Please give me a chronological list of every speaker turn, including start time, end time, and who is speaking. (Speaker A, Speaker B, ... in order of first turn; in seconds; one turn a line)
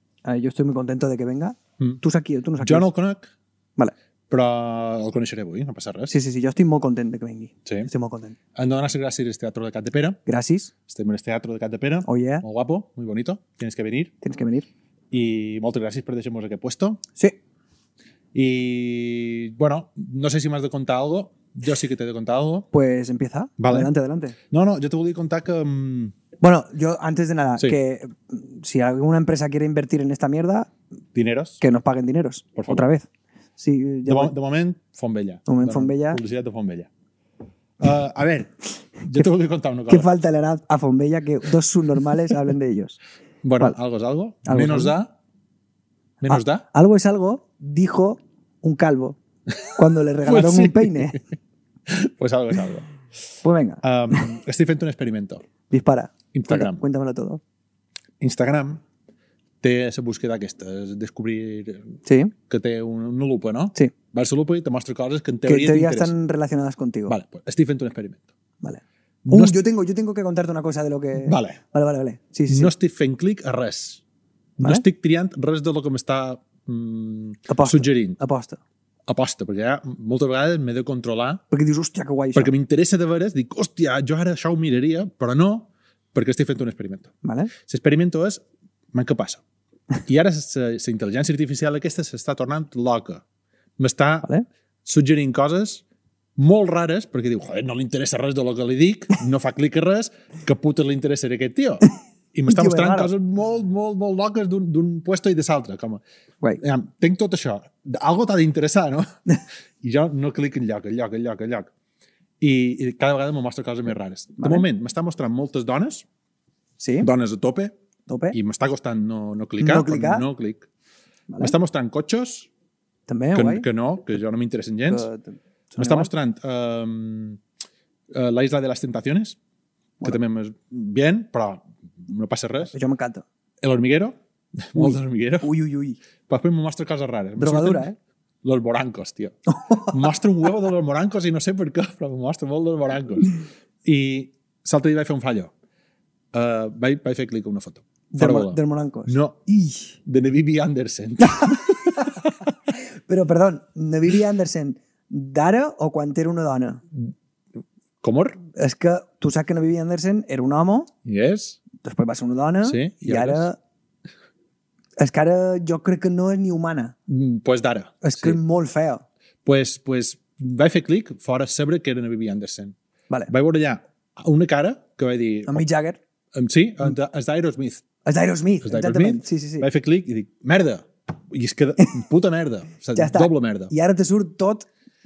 Speaker A: 0.2-2.9
Speaker B: 2.6-3.3
Speaker B: 4.3-6.2
Speaker A: 6.1-8.4
Speaker B: 8.6-10.2
Speaker A: 10.3-10.7
Speaker B: 10.9-14.1
Speaker A: 12.1-12.4
Speaker A: 14.2-14.7
Speaker B: 15.1-17.0
Speaker B: 18.3-22.7
Speaker A: 22.7-24.4
Speaker B: 23.6-23.9
Speaker B: 24.5-26.1
Speaker A: 26.4-30.7
Speaker B: 31.1-31.6
Speaker A: 31.6-33.1
Speaker B: 32.6-32.9
Speaker A: 33.6-34.3
Speaker B: 34.1-36.9
Speaker A: 35.5-36.2
Speaker B: 37.8-40.1
Speaker A: 39.9-43.0
Speaker B: 43.4-45.1
Speaker A: 44.5-45.0
Speaker B: 46.2-46.6
Speaker A: 46.3-49.2
Speaker A: 49.8-51.2
Speaker B: 50.3-51.1
Speaker B: 51.9-52.9
Speaker A: 53.4-54.2
Speaker B: 53.8-55.5
Speaker A: 55.7-57.4
Speaker B: 56.3-56.8
Speaker B: 58.2-58.8
Speaker B: 59.6-62.0
Speaker A: 62.0-62.3
Speaker B: 62.5-66.1
Speaker A: 65.5-67.2
Speaker B: 67.1-68.3
Speaker A: 68.6-72.7
Speaker B: 69.2-69.6
Speaker B: 71.2-71.6
Speaker B: 72.5-74.0
Speaker B: 74.6-78.2
Speaker A: 77.5-78.6
Speaker B: 79.1-81.4
Speaker A: 81.5-82.5
Speaker B: 82.3-87.1
Speaker A: 87.2-87.5
Speaker B: 87.7-89.4
Speaker B: 90.0-93.2
Speaker B: 93.8-94.3
Speaker B: 94.8-95.8
Speaker B: 96.4-106.0
Speaker A: 102.5-103.1
Speaker B: 106.6-109.1
Speaker B: 109.8-111.7
Speaker B: 112.4-116.1
Speaker A: 114.4-114.7
Speaker A: 116.8-117.1
Speaker B: 117.0-117.8
Speaker A: 118.1-118.4
Speaker B: 118.3-120.7
Speaker A: 119.6-120.3
Speaker A: 121.3-121.5
Speaker B: 121.4-122.5
Speaker A: 123.1-123.7
Speaker B: 123.3-125.1
Speaker A: 124.9-126.1
Speaker B: 125.8-127.4
Speaker B: 128.1-129.4
Speaker B: 130.0-132.7
Speaker A: 132.7-133.2
Speaker B: 133.6-135.5
Speaker A: 134.8-136.0
Speaker B: 136.3-137.8
Speaker A: 137.4-138.0
Speaker B: 138.4-145.5
Speaker A: 139.6-139.9
Speaker B: 146.3-149.4
Speaker A: 148.1-150.0
Speaker B: 150.0-152.5
Speaker A: 153.1-156.8
Speaker B: 158.0-158.4
Speaker A: 158.6-160.9
Speaker B: 161.1-161.6
Speaker A: 161.8-163.6
Speaker B: 162.6-163.5
Speaker A: 165.0-166.9
Speaker B: 167.1-168.4
Speaker A: 168.0-169.1
Speaker B: 169.4-172.8
Speaker B: 173.3-175.6
Speaker A: 175.5-176.0
Speaker B: 176.3-177.8
Speaker A: 178.1-179.7
Speaker B: 178.6-183.7
Speaker A: 182.9-184.7